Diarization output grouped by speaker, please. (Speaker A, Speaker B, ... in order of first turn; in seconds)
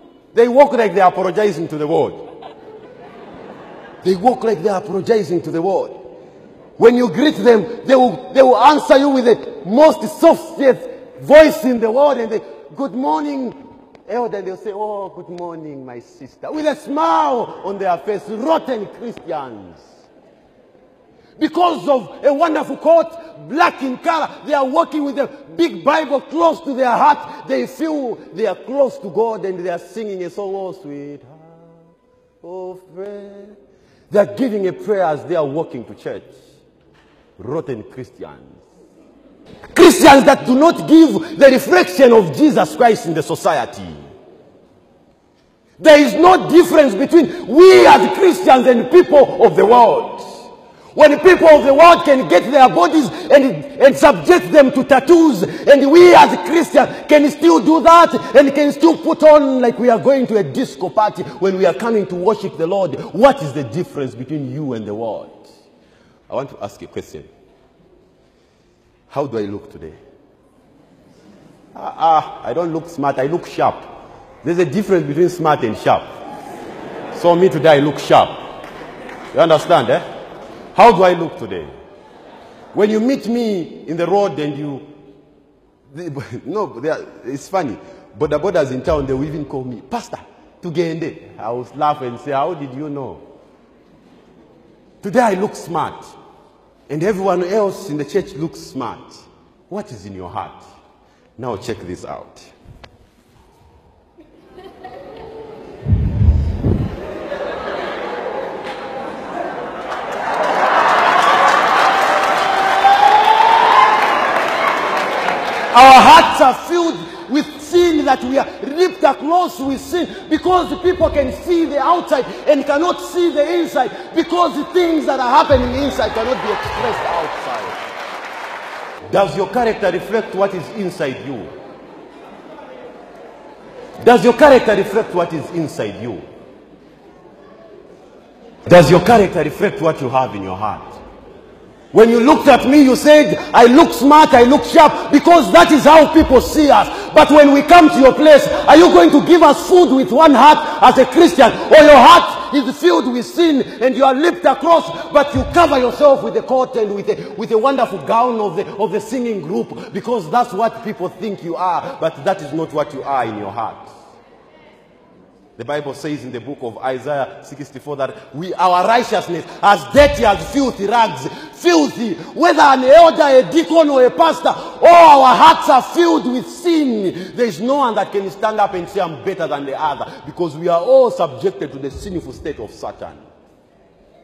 Speaker A: 0.3-2.2, 4.0-6.0, 6.8-13.5, 14.1-19.9, 21.4-31.7, 32.4-33.6, 34.1-36.3, 37.4-38.6, 39.7-44.0, 45.8-50.3, 50.9-65.5, 66.3-67.3, 69.1-70.0, 71.7-73.8, 74.4-76.1, 77.1-78.3, 79.3-80.0, 80.8-81.7, 82.7-84.9, 85.9-93.2, 95.0-96.1, 96.9-100.6, 101.4-102.5, 115.7-127.8, 129.1-131.5, 134.0-136.2, 138.7-140.8, 141.9-163.9, 165.6-183.2